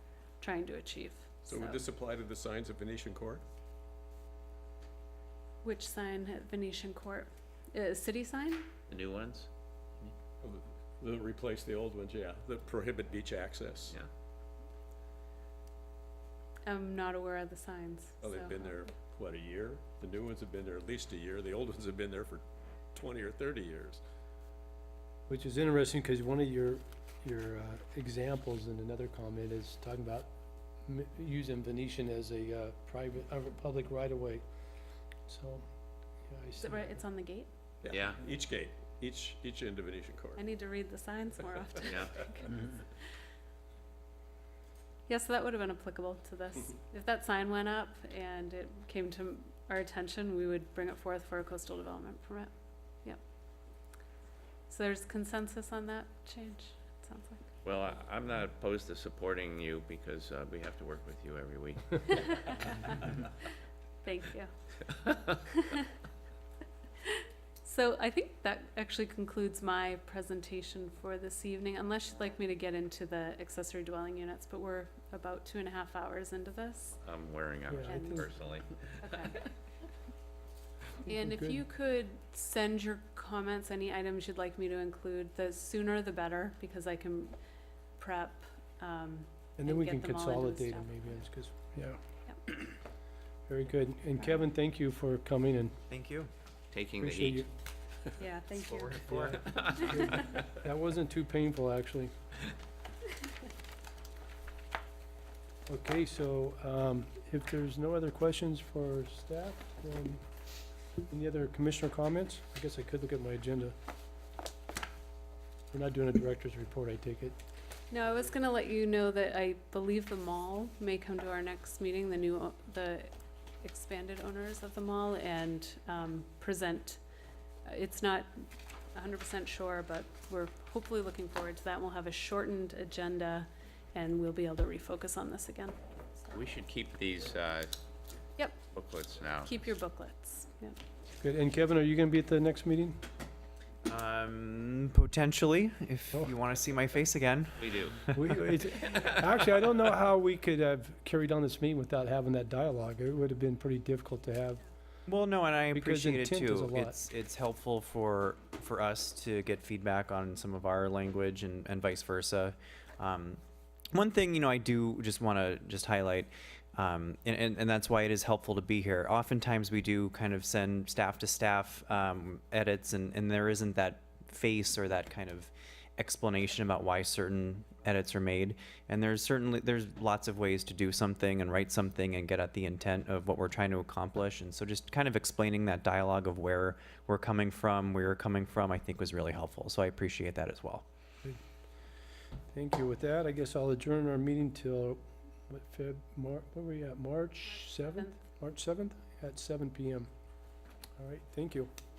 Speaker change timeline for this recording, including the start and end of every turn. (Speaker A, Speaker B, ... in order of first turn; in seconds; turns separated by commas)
Speaker A: 0.4-1.8, Speaker B: 1.4-3.4, Speaker A: 5.6-8.7, Speaker C: 8.9-9.5, Speaker B: 10.4-14.0, Speaker A: 16.6-18.8, Speaker B: 18.2-24.0, Speaker D: 25.3-30.3, Speaker D: 30.8-34.5, Speaker D: 35.3-35.6, Speaker D: 36.3-37.0, Speaker A: 36.6-37.5, Speaker B: 37.8-40.4, Speaker C: 37.9-38.2, Speaker A: 40.4-42.8, Speaker C: 41.8-42.2, Speaker A: 45.1-52.5, Speaker A: 54.7-57.4, Speaker C: 57.6-63.0, Speaker A: 62.1-63.1, Speaker A: 64.0-64.5, Speaker A: 65.5-65.9, Speaker A: 67.0-77.0, Speaker C: 77.0-78.7, Speaker D: 77.7-78.3, Speaker A: 77.8-78.2, Speaker A: 79.0-79.4, Speaker A: 81.0-87.3, Speaker D: 81.0-81.6, Speaker A: 88.0-91.0, Speaker D: 89.6-92.8, Speaker D: 93.5-95.8, Speaker E: 95.9-96.3, Speaker C: 96.7-97.5, Speaker D: 97.0-97.5, Speaker A: 98.2-99.0, Speaker E: 98.6-99.4, Speaker D: 98.9-102.1, Speaker C: 99.2-100.4, Speaker D: 105.7-110.2, Speaker D: 111.1-113.7, Speaker D: 115.7-117.4, Speaker A: 117.9-127.0, Speaker A: 127.7-136.3, Speaker C: 136.3-137.7, Speaker C: 138.7-139.5, Speaker A: 139.4-140.8, Speaker D: 141.2-143.0, Speaker E: 143.8-148.4, Speaker C: 147.6-148.0, Speaker D: 148.1-154.6, Speaker E: 155.1-163.4, Speaker D: 155.7-156.9, Speaker E: 163.9-190.8, Speaker D: 192.5-200.1, Speaker A: 197.4-198.2, Speaker D: 201.0-201.7